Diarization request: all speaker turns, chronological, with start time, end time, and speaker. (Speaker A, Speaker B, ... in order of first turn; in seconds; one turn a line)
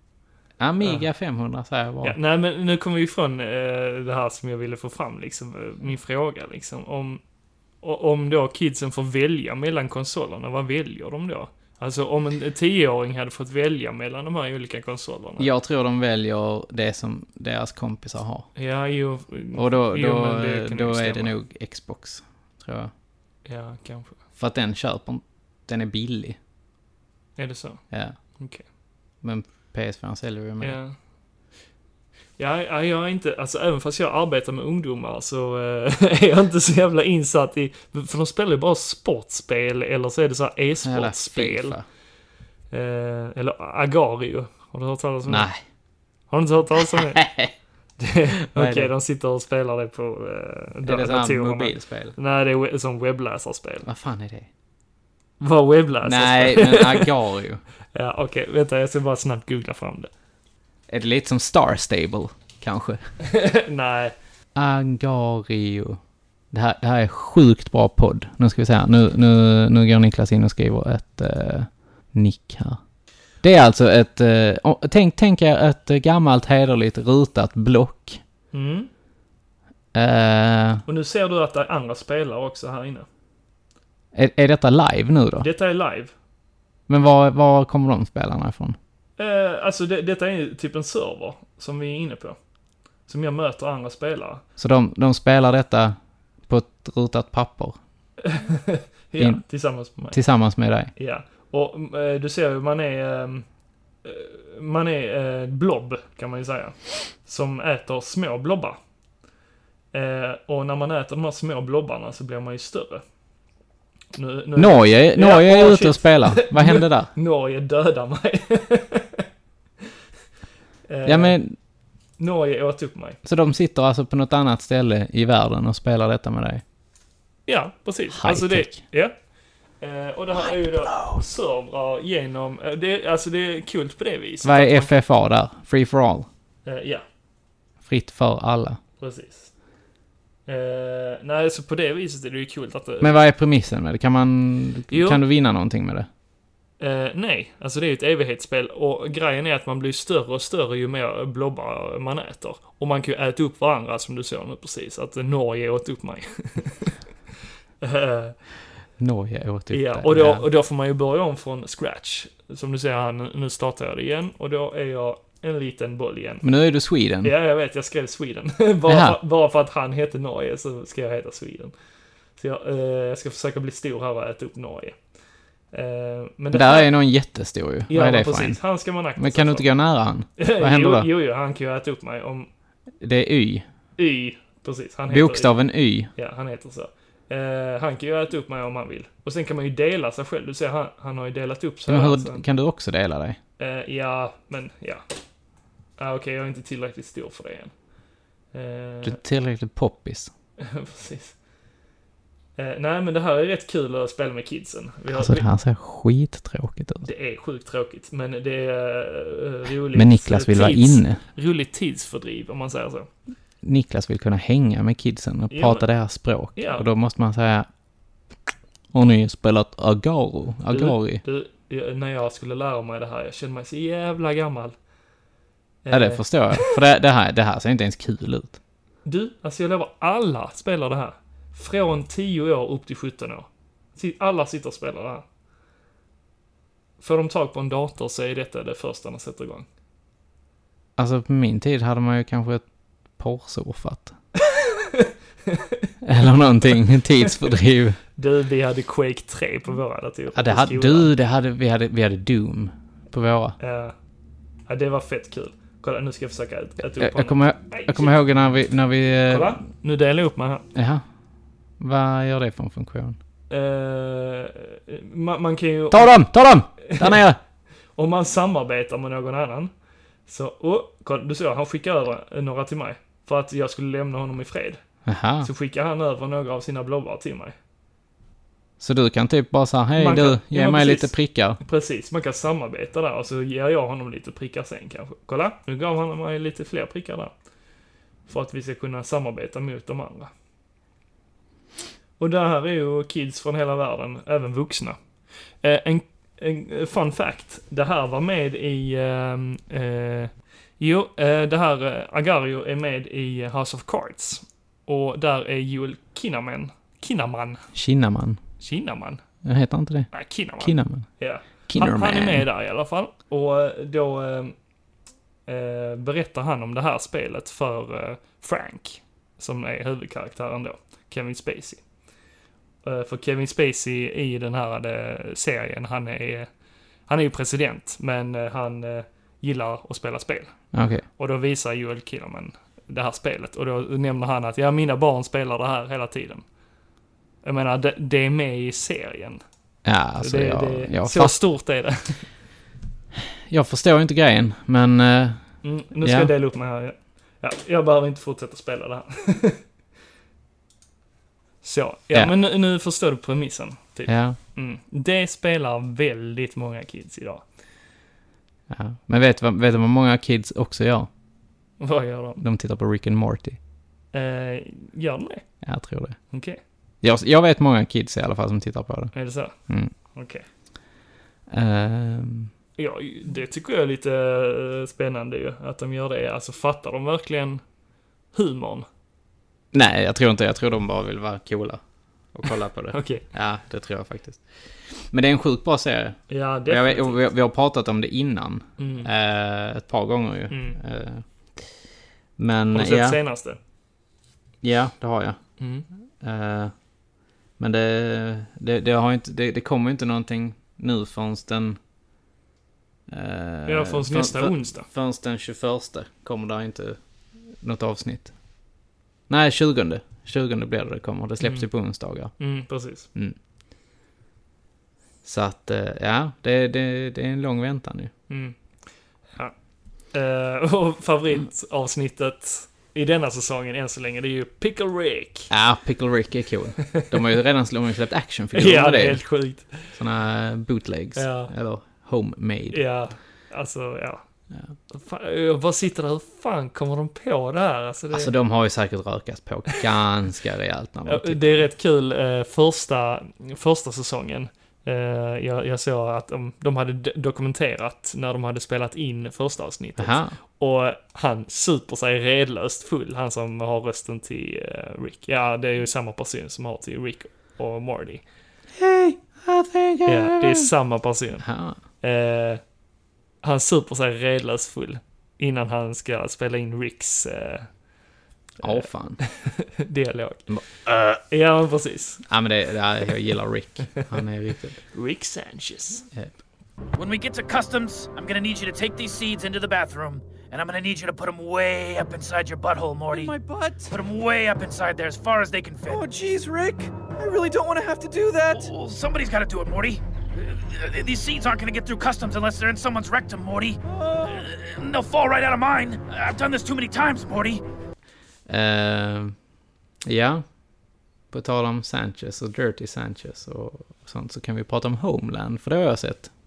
Speaker A: 0.6-2.2
Speaker B: 2.0-7.2
Speaker B: 7.8-15.5
Speaker A: 15.4-18.5
Speaker B: 18.6-21.3
Speaker A: 19.5-22.9
Speaker B: 23.5-24.2
Speaker A: 24.4-26.4
Speaker B: 27.4-27.8
Speaker B: 28.4-28.6
Speaker A: 29.2-30.8
Speaker B: 30.6-31.0
Speaker B: 32.4-41.8
Speaker A: 40.8-41.9
Speaker B: 42.7-45.5
Speaker A: 45.3-45.6
Speaker B: 46.3-47.2
Speaker A: 46.8-47.5
Speaker B: 48.0-53.9
Speaker A: 48.5-48.9
Speaker A: 50.8-52.1
Speaker A: 53.9-54.5
Speaker B: 55.4-57.1
Speaker A: 56.0-57.6
Speaker B: 58.0-60.1
Speaker A: 60.9-63.0
Speaker B: 63.2-64.1
Speaker A: 64.5-66.0
Speaker A: 66.5-72.8
Speaker A: 73.4-78.2
Speaker B: 78.5-78.9
Speaker A: 79.9-80.8
Speaker B: 80.9-83.1
Speaker A: 84.1-85.5
Speaker B: 85.4-86.1
Speaker A: 86.9-88.8
Speaker B: 89.2-92.4
Speaker B: 93.1-94.4
Speaker A: 94.6-96.0
Speaker A: 96.5-97.8
Speaker B: 98.2-100.2
Speaker A: 99.2-99.4
Speaker A: 100.0-100.9
Speaker B: 101.0-103.5
Speaker B: 104.0-108.8
Speaker B: 109.9-113.0
Speaker B: 114.2-119.2
Speaker A: 114.6-117.1
Speaker B: 120.9-121.4
Speaker A: 121.0-121.6
Speaker B: 122.2-123.2
Speaker A: 123.2-126.6
Speaker B: 127.5-129.1
Speaker A: 128.1-128.8
Speaker B: 129.8-134.9
Speaker A: 130.5-131.2
Speaker A: 134.4-136.3
Speaker B: 136.7-137.0
Speaker A: 137.8-138.8
Speaker B: 139.0-139.5
Speaker B: 140.5-143.2
Speaker A: 143.0-146.1
Speaker B: 144.9-145.2
Speaker B: 146.8-157.0
Speaker B: 157.8-158.4
Speaker A: 159.0-160.5
Speaker B: 159.7-166.4
Speaker A: 166.4-167.3
Speaker B: 167.2-171.7
Speaker A: 168.9-169.2
Speaker B: 172.4-175.0
Speaker B: 175.7-176.9
Speaker A: 176.5-178.6
Speaker B: 177.9-179.7
Speaker A: 179.2-181.1
Speaker B: 180.4-182.5
Speaker A: 183.0-183.7
Speaker B: 184.0-185.5
Speaker A: 185.1-186.1
Speaker B: 186.2-192.4
Speaker A: 191.9-193.4
Speaker B: 193.6-195.0
Speaker B: 196.0-197.7
Speaker B: 198.5-199.2
Speaker A: 199.0-200.3
Speaker B: 200.6-201.4
Speaker B: 202.6-205.5
Speaker A: 205.1-207.1
Speaker B: 207.0-213.1
Speaker A: 209.9-211.2
Speaker A: 213.6-217.7
Speaker B: 215.5-215.9
Speaker B: 216.6-216.9
Speaker A: 218.9-221.2
Speaker B: 220.7-224.8
Speaker B: 225.8-226.8
Speaker A: 225.9-228.6
Speaker B: 229.1-235.2
Speaker B: 237.0-239.7
Speaker A: 241.0-242.6
Speaker A: 243.2-244.2
Speaker B: 244.9-245.6
Speaker A: 246.0-248.0
Speaker B: 248.2-251.1
Speaker A: 250.3-253.6
Speaker B: 253.6-253.9
Speaker B: 254.7-258.2
Speaker A: 257.0-259.6
Speaker B: 259.3-260.7
Speaker A: 260.8-261.0
Speaker A: 261.8-263.2
Speaker B: 263.5-266.2
Speaker A: 265.9-267.4
Speaker B: 266.9-267.2
Speaker B: 267.9-269.7
Speaker B: 270.3-274.8
Speaker A: 275.1-275.5
Speaker B: 275.4-277.6
Speaker A: 278.8-281.6
Speaker B: 280.0-287.3
Speaker B: 288.3-290.3
Speaker B: 292.2-295.0
Speaker B: 295.6-307.6
Speaker A: 307.7-308.4
Speaker B: 308.6-309.2
Speaker A: 309.4-311.1
Speaker B: 310.1-314.6
Speaker A: 311.7-312.5
Speaker B: 315.5-321.8
Speaker B: 322.8-326.5
Speaker B: 327.1-330.6
Speaker A: 330.7-331.0
Speaker B: 331.2-336.4
Speaker B: 337.4-339.4
Speaker A: 339.9-341.4
Speaker B: 340.2-342.3
Speaker A: 343.5-346.3
Speaker B: 345.6-349.6
Speaker B: 351.6-357.4
Speaker A: 354.1-354.4
Speaker A: 358.7-361.1
Speaker B: 361.8-362.4
Speaker A: 362.4-363.6
Speaker B: 364.1-365.4
Speaker A: 365.6-366.2
Speaker B: 366.3-366.6
Speaker A: 367.0-369.9
Speaker B: 369.1-369.6
Speaker B: 370.1-370.4
Speaker A: 371.5-372.5
Speaker B: 372.8-377.6
Speaker B: 378.3-378.9
Speaker A: 379.7-381.8
Speaker A: 382.3-391.2
Speaker B: 382.9-383.2
Speaker B: 386.3-387.2
Speaker B: 388.8-389.1
Speaker B: 390.5-390.8
Speaker A: 392.4-393.2
Speaker B: 392.7-393.6
Speaker A: 394.6-395.4
Speaker B: 395.6-395.9
Speaker A: 396.2-396.7
Speaker A: 397.6-401.8
Speaker A: 403.1-407.0
Speaker B: 403.7-404.9
Speaker A: 407.6-408.3
Speaker A: 409.3-412.3
Speaker B: 411.4-411.7
Speaker B: 412.4-413.1
Speaker A: 415.2-418.1
Speaker B: 418.3-418.6
Speaker B: 420.1-425.5
Speaker A: 425.5-429.3
Speaker B: 428.5-429.9
Speaker A: 429.9-432.8
Speaker B: 431.2-431.5
Speaker B: 432.7-434.2
Speaker B: 434.9-438.3
Speaker A: 438.1-441.6
Speaker B: 441.1-458.2
Speaker A: 450.0-450.4
Speaker A: 458.8-460.7
Speaker B: 460.1-461.5
Speaker A: 461.4-461.8
Speaker B: 462.0-462.6
Speaker B: 463.4-467.7
Speaker A: 468.6-469.2
Speaker B: 468.6-470.5
Speaker A: 470.5-471.2
Speaker B: 471.3-472.2
Speaker A: 472.3-474.8
Speaker B: 474.9-476.0
Speaker C: 476.9-483.4
Speaker D: 483.1-483.9
Speaker C: 483.9-486.1
Speaker D: 485.9-488.7
Speaker C: 488.5-497.6
Speaker D: 493.9-494.4
Speaker A: 498.5-499.4
Speaker A: 500.1-500.4
Speaker A: 501.3-506.3